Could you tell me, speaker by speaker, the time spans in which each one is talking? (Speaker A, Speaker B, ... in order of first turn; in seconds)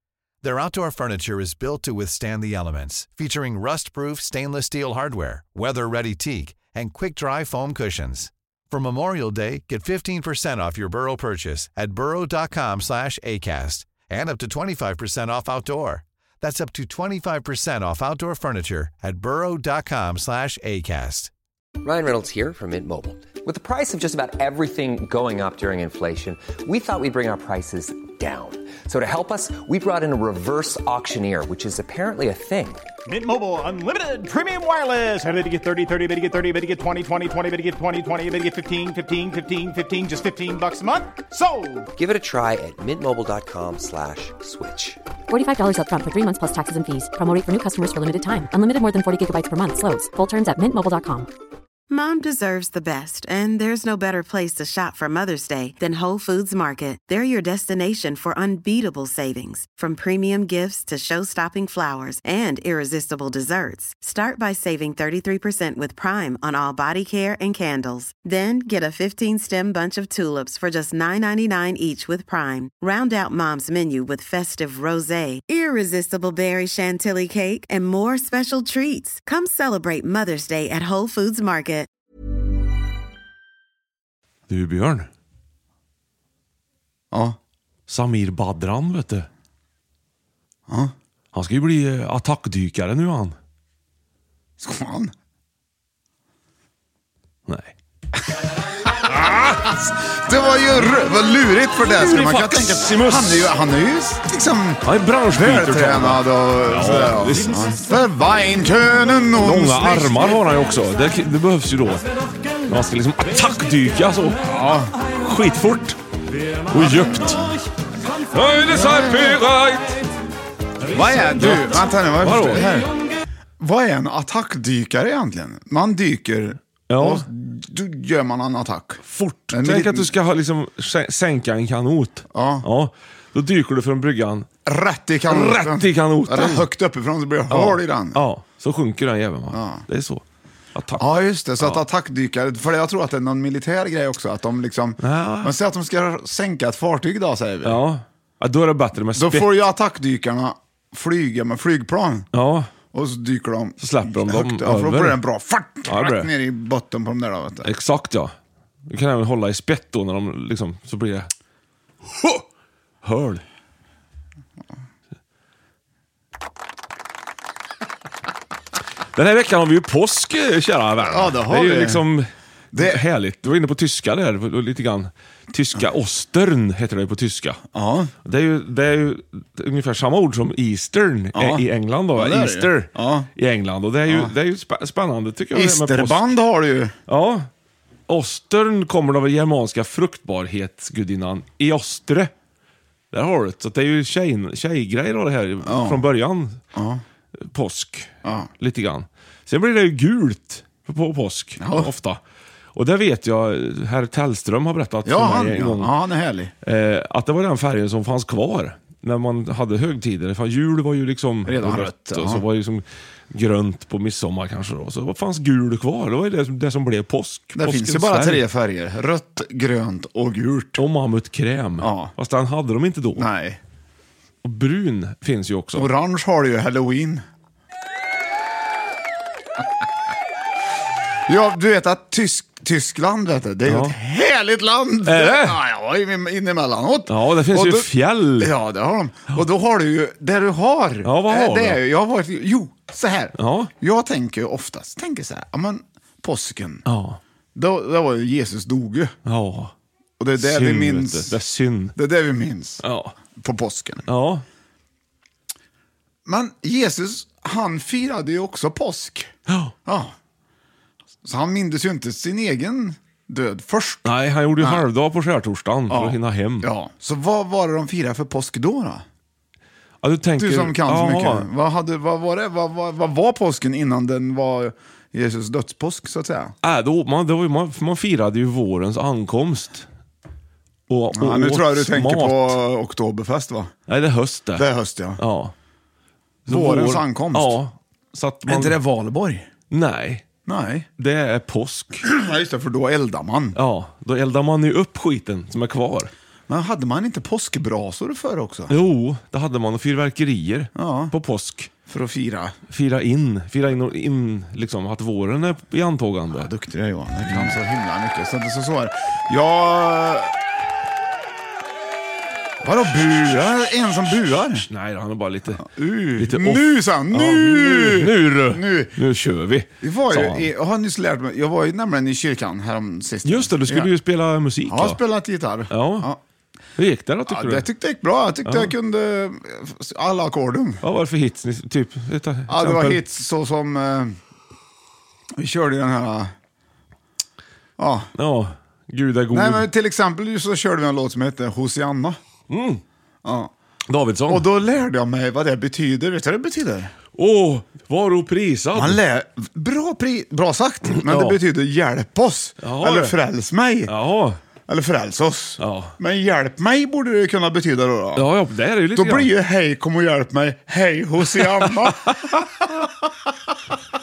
Speaker A: 0.4-21.3
Speaker B: 21.8-32.8, 42.0-45.0
Speaker C: 33.0-41.9
Speaker D: 45.3-51.3
Speaker E: 51.9-81.9
Speaker F: 84.5-85.1, 87.9-89.3, 91.3-93.4, 97.5-97.7, 99.1-99.5, 101.7-103.5, 104.8-107.8, 109.4-112.0, 112.7-114.5, 115.2-116.0, 116.7-117.5, 118.3-120.0, 120.9-122.7, 126.9-127.2, 129.0-134.5, 135.3-136.7, 137.5-140.2, 140.7-141.0, 145.0-145.5, 147.6-149.5, 152.3-152.7, 153.8-155.2, 155.8-156.3, 157.6-158.3, 158.9-161.3, 163.0-163.4, 169.1-177.6, 178.2-186.2, 187.1-187.5, 188.1-192.3, 193.1-196.6, 197.4-202.2, 202.7-205.9, 206.6-218.4, 220.8-223.3, 224.4-225.9, 233.7-233.9, 235.0-235.6, 237.1-238.5, 241.0-241.8, 243.4-243.7, 246.8-247.2, 249.2-249.7, 250.4-251.9, 252.8-253.2, 254.1-254.4, 259.5-259.7, 264.0-266.7, 270.0-271.5, 276.6-279.9, 280.9-282.6, 283.9-284.7, 285.2-285.5, 286.4-288.8, 289.7-290.3, 291.0-292.0, 293.5-296.1, 298.7-301.7, 302.7-306.5, 307.3-307.6, 314.6-315.6, 316.2-320.5, 323.2-325.0, 325.7-326.1, 326.8-327.6, 328.4-328.7, 330.8-333.0, 338.1-339.7, 342.5-342.8, 343.9-344.4, 347.1-349.0, 350.9-351.4, 352.6-353.1, 353.9-354.4, 355.6-355.9, 358.1-359.3, 361.3-362.5
Speaker G: 87.1-87.4, 90.7-90.9, 94.6-95.1, 98.8-110.4, 114.4-114.9, 116.7-117.5, 118.7-119.4, 120.8-122.9, 123.6-130.1, 132.3-132.7, 134.6-138.2, 139.5-139.8, 141.0-147.8, 149.2-152.3, 152.9-157.7, 171.0-172.0, 172.7-173.0, 177.7-178.1, 181.3-183.3, 184.1-184.3, 185.5-186.9, 195.6-196.0, 196.7-197.0, 198.2-198.5, 201.6-201.9, 205.0-206.5, 211.4-212.4, 217.6-220.8, 221.8-222.1, 223.1-223.6, 225.7-227.2, 231.3-246.8, 247.5-249.2, 250.2-251.3, 251.9-252.8, 253.3-254.1, 256.2-259.3, 259.9-260.1, 261.2-264.0, 264.6-264.8, 265.9-269.0, 270.4-276.5, 281.1-283.7, 284.5-285.2, 286.5-287.6, 288.4-289.5, 290.4-290.9, 292.0-293.6, 296.5-298.7, 300.7-301.1, 301.9-302.5, 306.3-310.3, 312.6-314.7, 315.6-319.0, 319.8-323.9, 324.6-326.2, 327.3-330.8, 332.5-334.2, 335.4-336.3, 337.8-338.1, 339.3-342.2, 343.2-343.5, 344.3-346.9, 348.7-353.9, 354.7-358.2, 358.9-362.9